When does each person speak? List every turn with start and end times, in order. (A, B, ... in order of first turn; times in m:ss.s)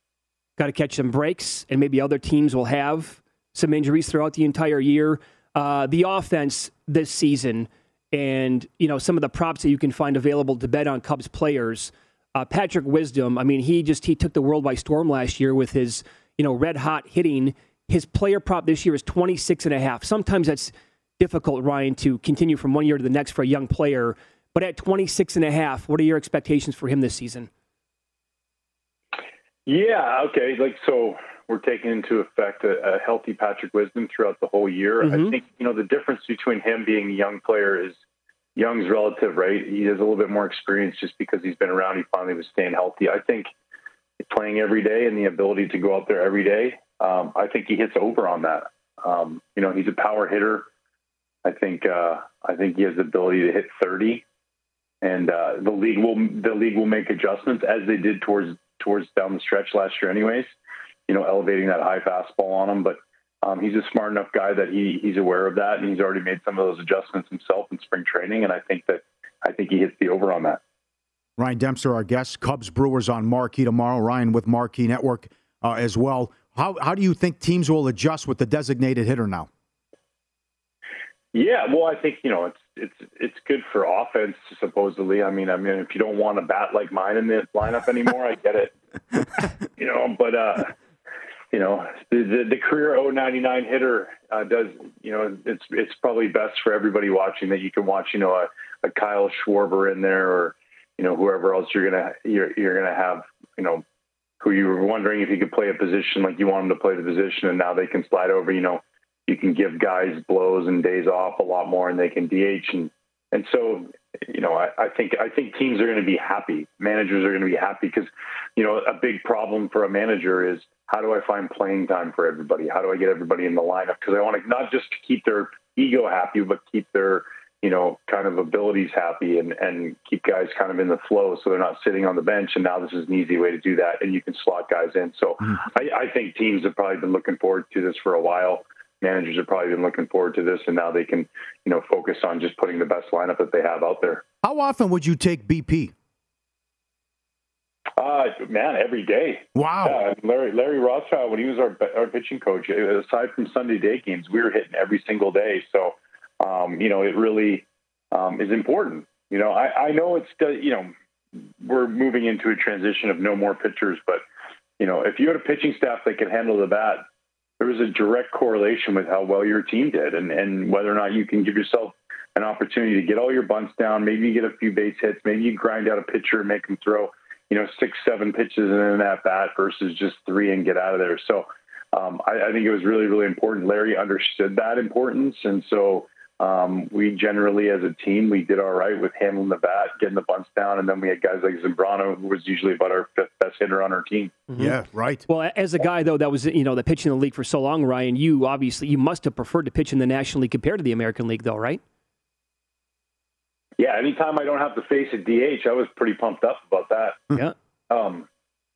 0:00.6-0:27.5 A
0:29.6-0:37.9 B
0:35.0-0:35.4 A
0:38.6-0:43.5 B
0:44.3-0:50.7 B
0:51.4-0:54.2 B
0:55.0-1:00.5 B
1:01.1-1:10.6 B
1:11.4-1:19.5 C
1:21.3-1:28.7 B
1:29.8-1:30.7 B
1:31.5-1:43.8 B
1:44.4-2:24.2 B
2:24.4-2:25.9 C
2:28.0-2:40.9 B
2:29.5-2:30.0 C
2:41.6-2:44.2 B
2:44.8-2:47.0 B
2:47.6-3:14.4 B
3:14.5-3:14.8 A
3:14.6-3:15.2 C
3:15.3-3:21.8 A
3:23.8-3:27.2 B
3:27.9-3:28.3 B